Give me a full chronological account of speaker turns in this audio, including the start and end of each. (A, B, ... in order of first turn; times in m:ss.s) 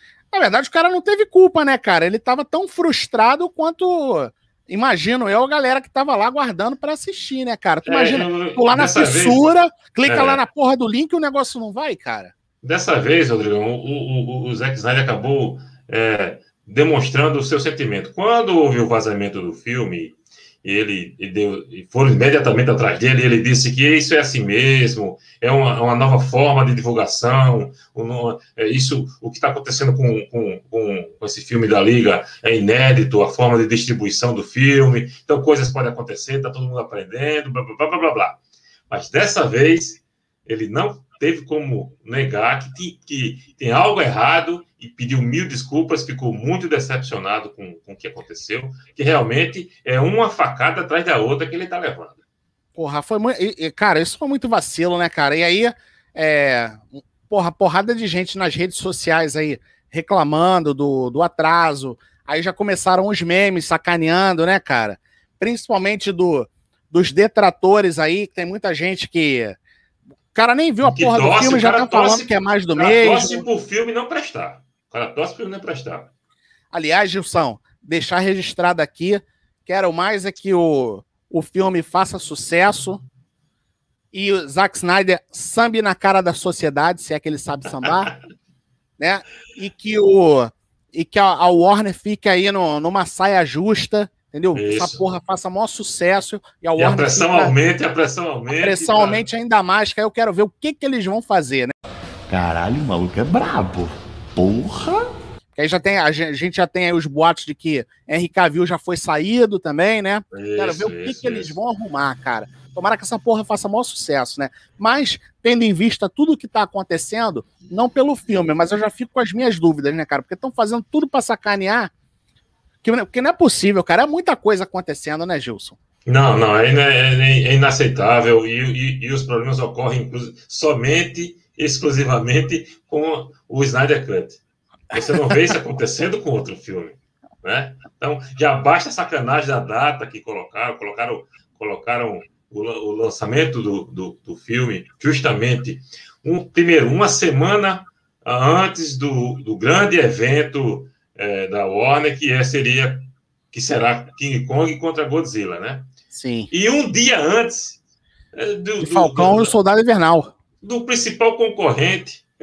0:00.3-0:12.3 A
0:07.8-0:09.4 B
0:10.0-0:10.4 B
0:12.6-0:52.2 B
0:52.7-1:09.6 A
1:10.3-1:13.4 A
1:10.8-1:16.1 B
1:16.7-1:23.0 A
1:24.1-1:28.1 A
1:29.0-1:37.5 A
1:34.5-1:35.0 B
1:36.8-1:39.3 B
1:38.5-1:41.7 A
1:42.3-1:45.0 C
1:45.5-2:01.9 A
1:50.3-1:51.6 B
2:02.8-2:05.8 A
2:06.0-2:14.4 B
2:14.9-2:35.9 B
2:15.1-2:15.5 A
2:36.1-2:36.5 A
2:36.5-2:37.8 B
2:38.3-2:39.5 B
2:38.8-2:40.3 A
2:40.6-2:42.3 B